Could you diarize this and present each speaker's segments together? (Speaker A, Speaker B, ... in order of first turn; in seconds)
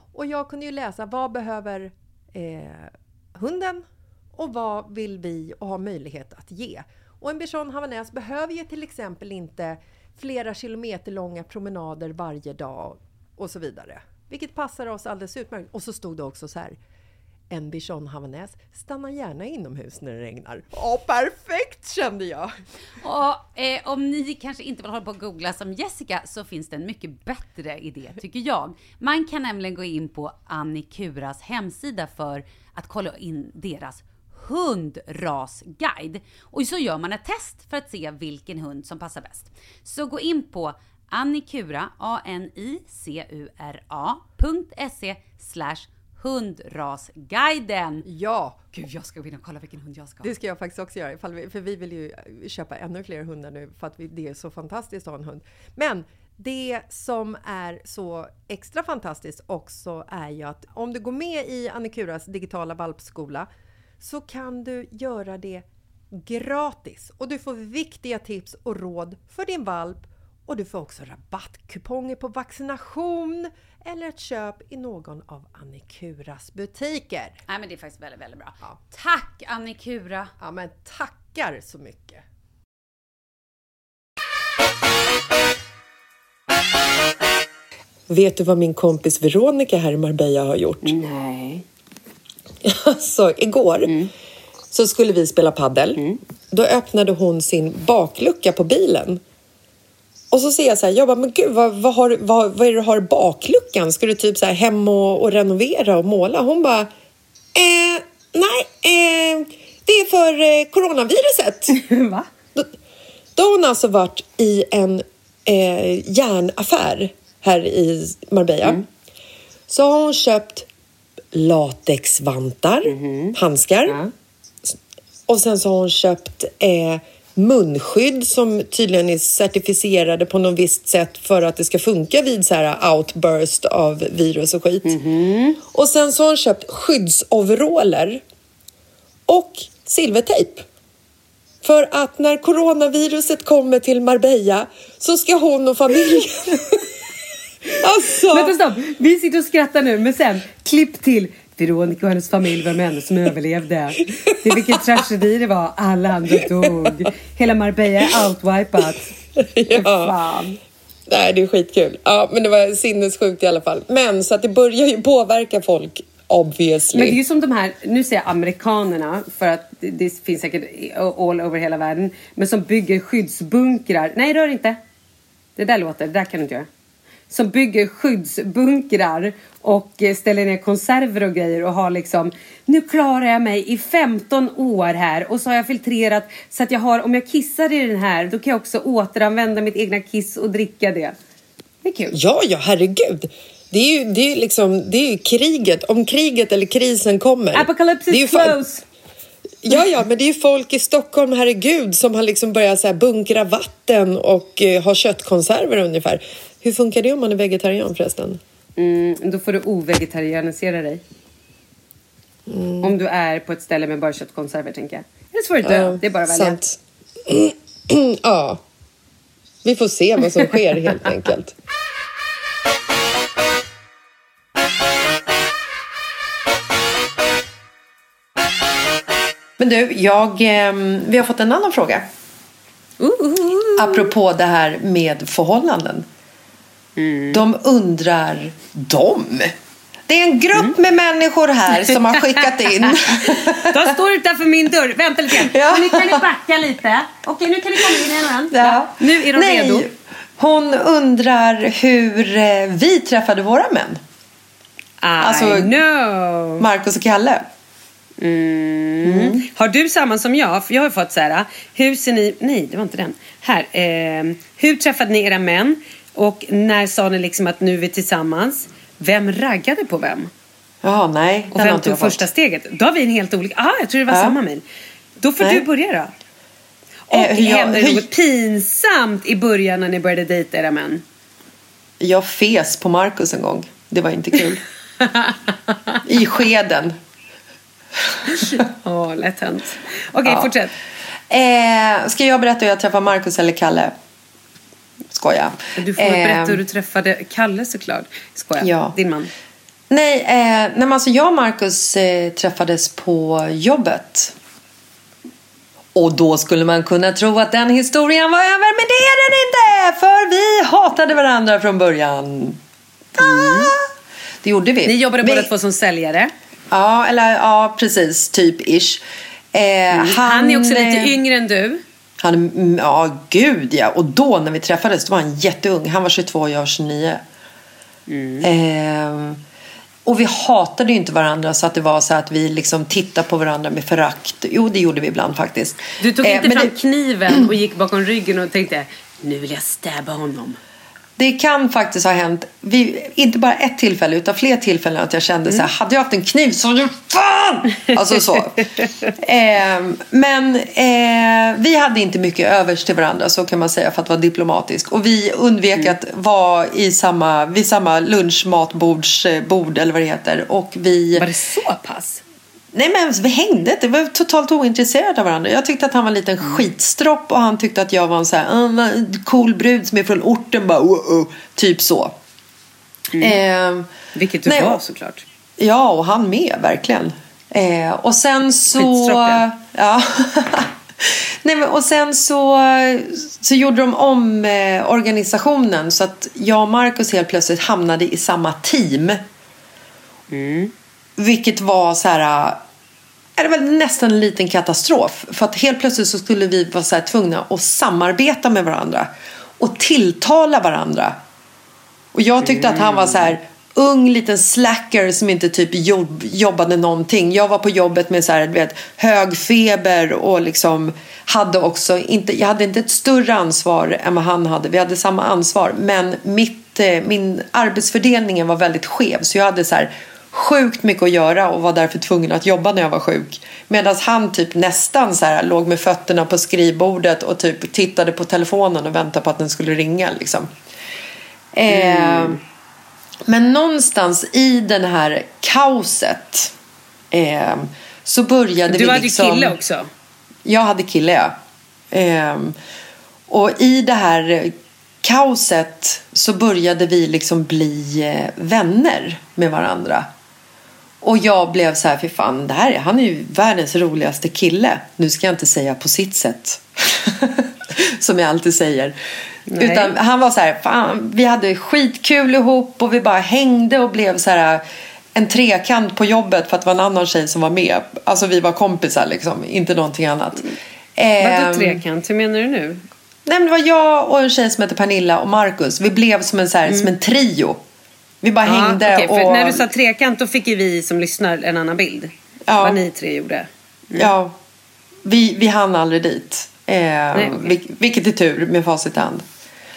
Speaker A: 0.1-3.9, 4.4-16.8, 17.5-22.5, 48.0-48.7, 50.2-63.5, 64.0-77.4, 80.4-82.2, 88.1-91.0, 92.6-93.9, 94.7-99.2, 100.3-106.9, 107.5-111.7, 113.4-118.8, 119.7-120.7, 121.3-124.0, 124.6-135.0, 135.7-138.2, 139.3-140.7, 141.6-146.9, 147.8-148.6, 154.4-155.0, 156.3-157.1, 158.8-160.2, 161.1-167.2, 192.1-198.6, 199.6-208.4, 212.5-212.9, 215.6-218.6, 219.6-221.6, 229.6-232.1, 233.8-236.1, 237.3-239.5, 240.1-243.9, 245.3-246.2, 247.9-254.0, 255.2-255.7, 256.6-257.5, 259.0-259.4, 270.8-272.3, 274.1-274.4, 275.4-275.6, 277.1-278.1, 282.0-284.6, 286.1-287.0, 290.2-290.5, 291.3-293.9, 295.1-296.6, 298.6-299.0, 299.9-304.4, 305.9-312.6, 313.2-313.8, 314.4-315.5, 316.7-321.2, 322.2-327.2, 328.4-329.4, 330.1-336.8, 341.2-348.6, 349.2-361.3, 362.7-372.2, 373.2-373.9, 374.5-374.8, 375.6-389.2, 391.2-392.6, 393.4-401.2, 402.1-430.5, 431.5-432.4, 433.3-436.5, 437.1-439.6, 440.4-441.4, 441.9-442.6, 443.3-450.1, 451.0-459.0, 459.6-464.6, 465.1-471.8, 473.3-477.6, 478.2-479.7, 482.5-482.8, 483.9-484.4, 485.1-489.2
Speaker B: 23.0-48.1, 48.7-50.3, 77.5-80.3
Speaker C: 90.8-91.6, 93.8-94.1, 111.7-112.3, 122.9-123.4, 134.8-135.6, 148.3-159.1, 159.7-160.6, 166.9-174.8, 175.6-176.7, 177.3-191.2, 191.8-192.2, 197.5-198.8, 208.8-211.0, 212.8-216.6, 233.0-234.1, 237.0-237.4, 241.9-249.9, 255.0-256.6, 258.2-270.3, 271.5-274.6, 275.2-276.1, 277.1-281.0, 285.0-285.4, 288.3-290.7, 295.8-299.3, 313.2-313.7, 314.8-316.3, 319.9-321.8, 328.1-328.5, 336.0-340.6, 348.1-349.1, 361.2-362.2, 374.1-375.2, 378.7-379.4, 390.3-390.7, 402.4-403.3, 431.7-432.4, 438.7-439.9, 459.5-459.9, 471.2-472.8, 478.5-484.1, 487.1-487.5